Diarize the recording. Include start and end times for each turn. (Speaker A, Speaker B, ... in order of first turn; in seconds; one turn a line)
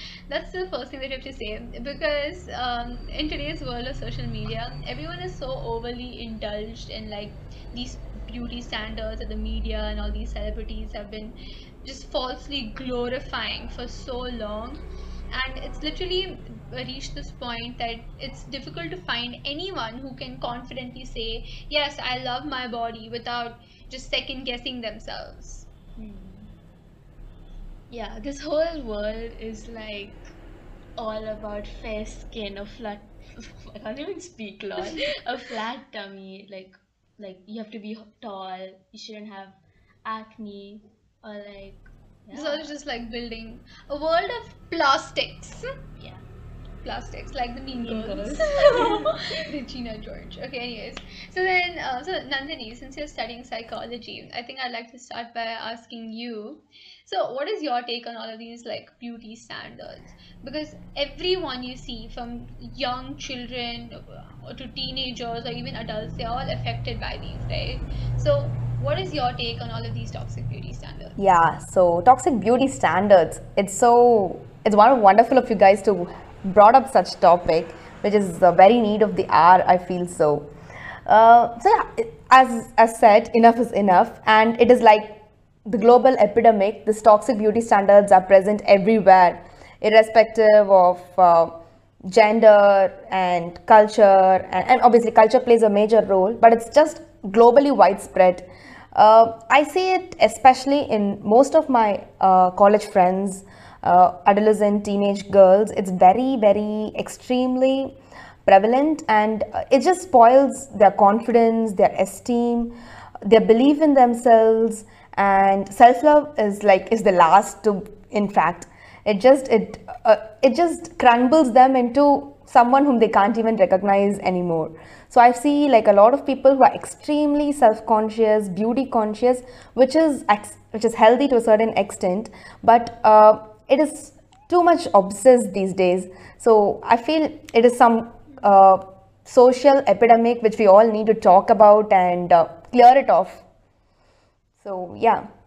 Speaker A: 0.3-25.7
Speaker B: 26.0-26.5
Speaker B: 27.9-30.2
Speaker B: 31.0-42.7
Speaker A: 42.3-45.6
Speaker B: 46.0-46.2
Speaker A: 46.8-71.2
Speaker B: 47.8-49.4
Speaker C: 71.2-80.5
Speaker C: 81.1-143.4
Speaker C: 144.6-145.2